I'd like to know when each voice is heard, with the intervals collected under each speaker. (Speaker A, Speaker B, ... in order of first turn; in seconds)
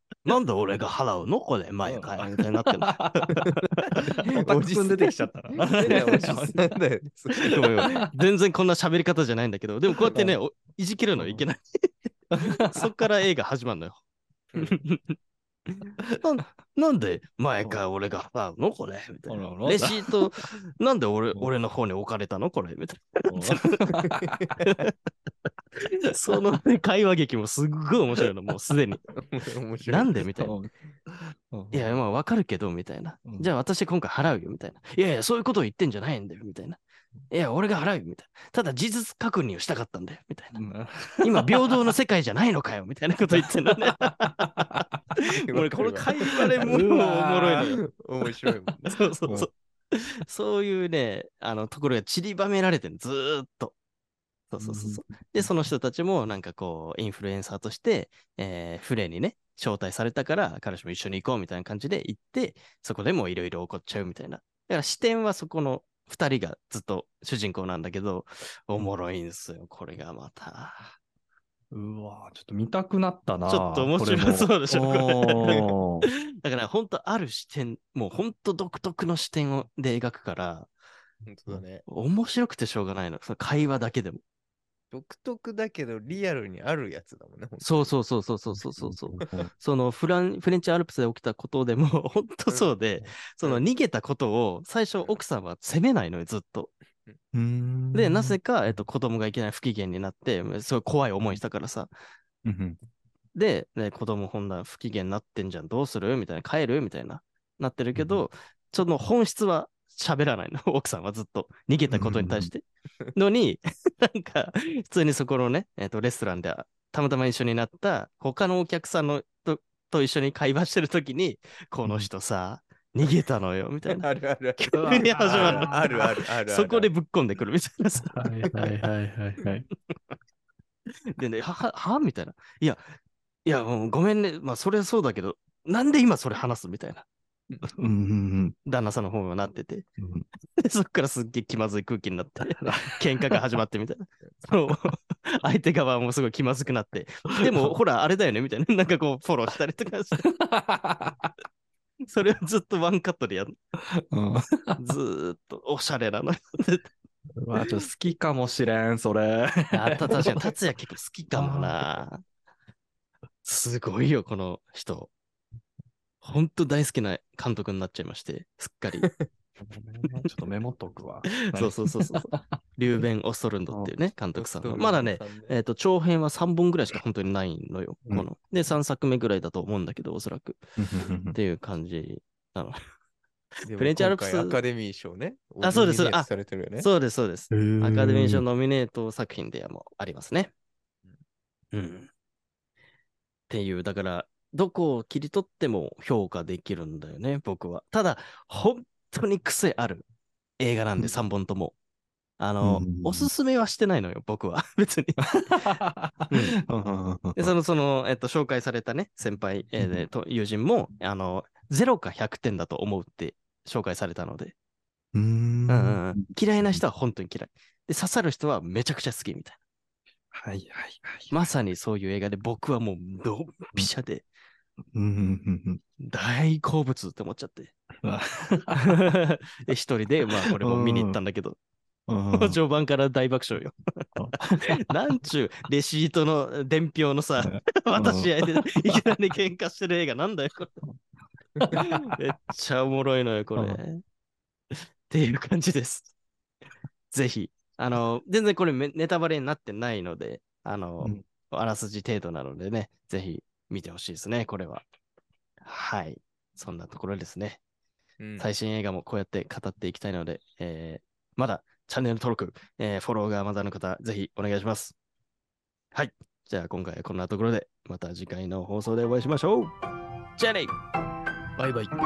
Speaker A: 0.2-4.1, 5.8-6.5, 7.4-14.0, 14.6-15.2, 15.7-23.7, 26.1-29.1, 29.8-30.6, 31.7-36.8, 37.3-40.6, 41.2-44.8, 45.5-47.8, 48.9-53.7, 54.5-71.0, 73.5-75.7, 76.4-80.7, 81.9-84.2, 87.6-96.7, 97.9-101.9, 103.3-124.1, 124.6-125.8, 126.5-128.6, 131.1-132.8, 133.4-137.1, 138.6-139.8, 140.6-150.3, 152.0-153.5, 154.8-156.9, 159.7-162.2, 163.4-165.1, 166.2-169.1, 171.5-180.6, 181.2-182.8, 183.7-184.6, 185.6-190.5, 191.7-192.1, 193.5-200.1, 200.6-201.8, 202.4-205.2, 206.3-206.6, 207.3-214.5, 215.7-219.6, 221.3-224.2, 226.0-227.7, 228.9-231.6, 232.3-233.8, 234.8-240.8, 241.7-244.0, 244.7-246.1, 247.1-254.8, 255.6-257.6, 258.4-264.9, 265.9-269.7, 270.4-270.7
Speaker B: 1.8-3.4, 4.0-6.7, 7.8-8.1, 11.2-11.4, 12.3-12.8, 19.3-20.3, 23.3-24.4, 30.4-32.0, 33.2-33.5, 40.5-41.5, 46.5-47.7, 49.2-49.5, 54.6-55.5, 71.7-76.0, 88.8-89.5, 97.3-98.7, 102.4-102.8, 107.9-108.2, 111.9-112.5, 124.7-126.0, 128.1-129.7, 137.7-138.5, 140.0-140.2, 142.6-143.4, 147.3-147.7, 150.2-151.3, 154.1-154.8, 157.4-160.4, 161.3-161.8, 169.6-172.5, 180.8-181.3, 187.5-188.4, 202.6-203.3, 205.2-207.5, 209.8-210.1, 215.1-216.8, 220.3-221.3, 224.9-225.8, 228.0-228.9, 230.5-231.2, 232.1-232.6, 234.2-234.8, 237.4-239.0, 241.6-242.2
Speaker C: 4.2-7.9, 14.5-14.8, 24.0-24.6, 29.1-30.1, 45.4-49.0, 81.2-81.8, 84.9-87.9, 89.1-89.4, 123.9-126.9, 169.0-169.3, 174.3-175.6, 183.7-186.9, 258.2-258.5